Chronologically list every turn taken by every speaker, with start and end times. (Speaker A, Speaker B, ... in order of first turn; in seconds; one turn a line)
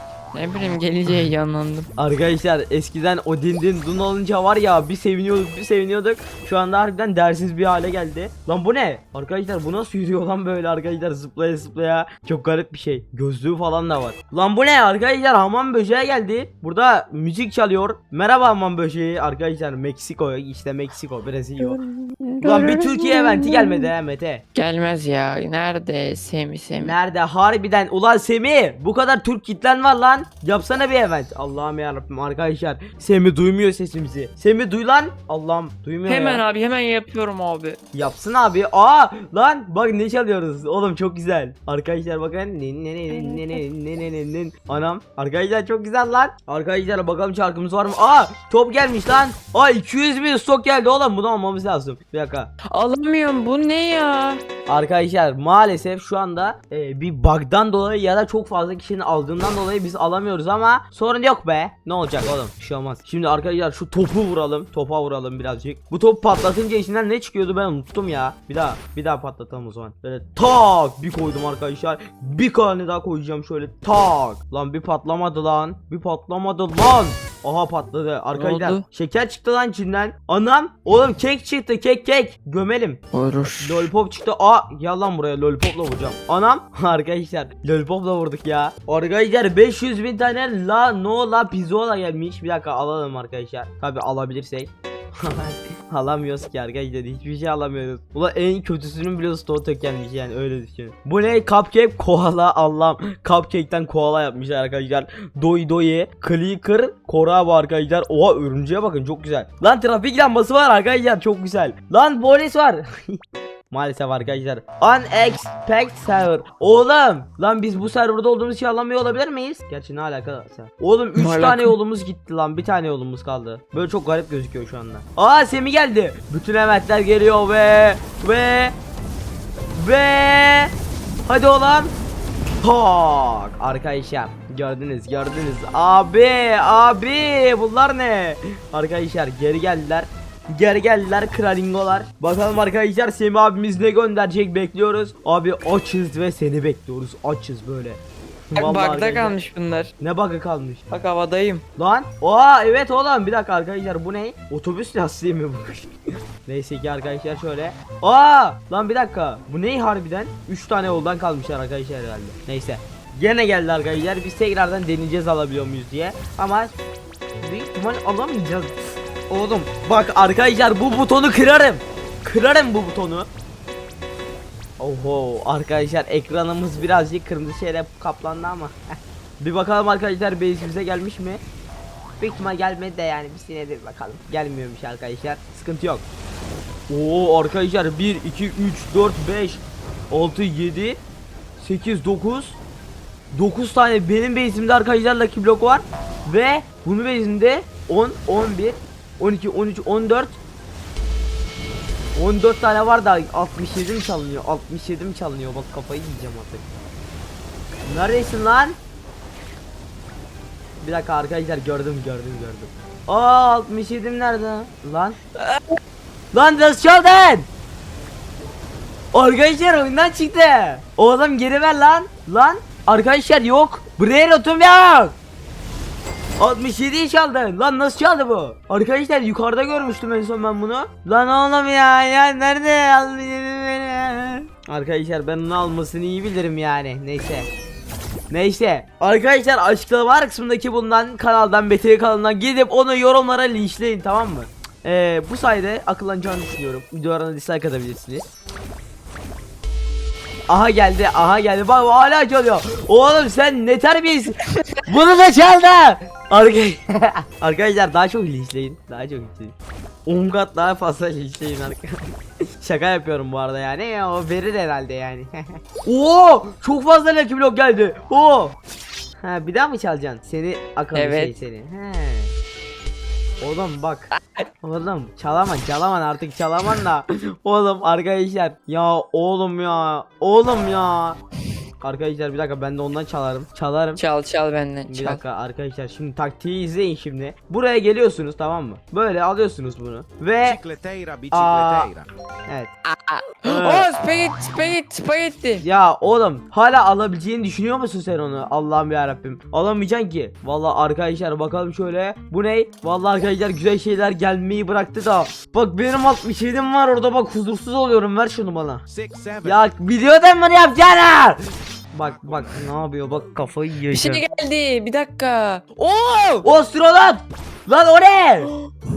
Speaker A: 0.3-1.9
Speaker B: 2.0-21.8
Speaker A: 21.6-23.9
Speaker B: 22.4-24.4
Speaker A: 24.5-26.9
Speaker B: 26.8-36.4
Speaker A: 36.1-37.8
Speaker B: 37.9-52.5
Speaker A: 43.1-43.6
Speaker A: 52.7-54.4
Speaker B: 54.7-83.0
Speaker A: 78.3-78.8
Speaker A: 83.1-83.9
Speaker B: 83.6-113.2
Speaker B: 113.7-128.7
Speaker A: 121.2-121.7
Speaker B: 129.7-130.7
Speaker B: 131.3-131.9
Speaker B: 132.6-149.3
Speaker A: 148.6-149.9
Speaker B: 150.0-150.8
Speaker A: 150.9-151.6
Speaker B: 151.8-155.9
Speaker B: 156.4-166.7
Speaker B: 167.4-173.3
Speaker B: 174.8-178.8
Speaker B: 179.4-181.4
Speaker B: 182.2-186.0
Speaker B: 186.9-191.0
Speaker B: 191.6-192.6
Speaker B: 193.3-200.4
Speaker B: 202.2-206.6
Speaker B: 207.8-208.8
Speaker B: 210.8-215.2
Speaker A: 215.3-215.8
Speaker B: 216.3-217.5
Speaker B: 219.1-225.2
Speaker B: 226.4-237.5
Speaker B: 238.3-248.3
Speaker B: 250.5-259.5
Speaker B: 260.1-268.6
Speaker B: 269.2-272.3
Speaker A: 270.9-271.3
Speaker B: 273.4-274.1
Speaker B: 274.6-281.2
Speaker B: 281.8-284.0
Speaker A: 284.0-285.2
Speaker B: 284.9-290.6
Speaker C: 290.4-292.1
Speaker B: 291.3-291.9
Speaker A: 292.9-295.6
Speaker B: 293.4-293.9
Speaker B: 295.6-308.8
Speaker C: 308.9-309.6
Speaker B: 309.4-311.4
Speaker B: 311.9-314.2
Speaker C: 312.0-312.6
Speaker A: 313.9-316.4
Speaker B: 316.4-318.5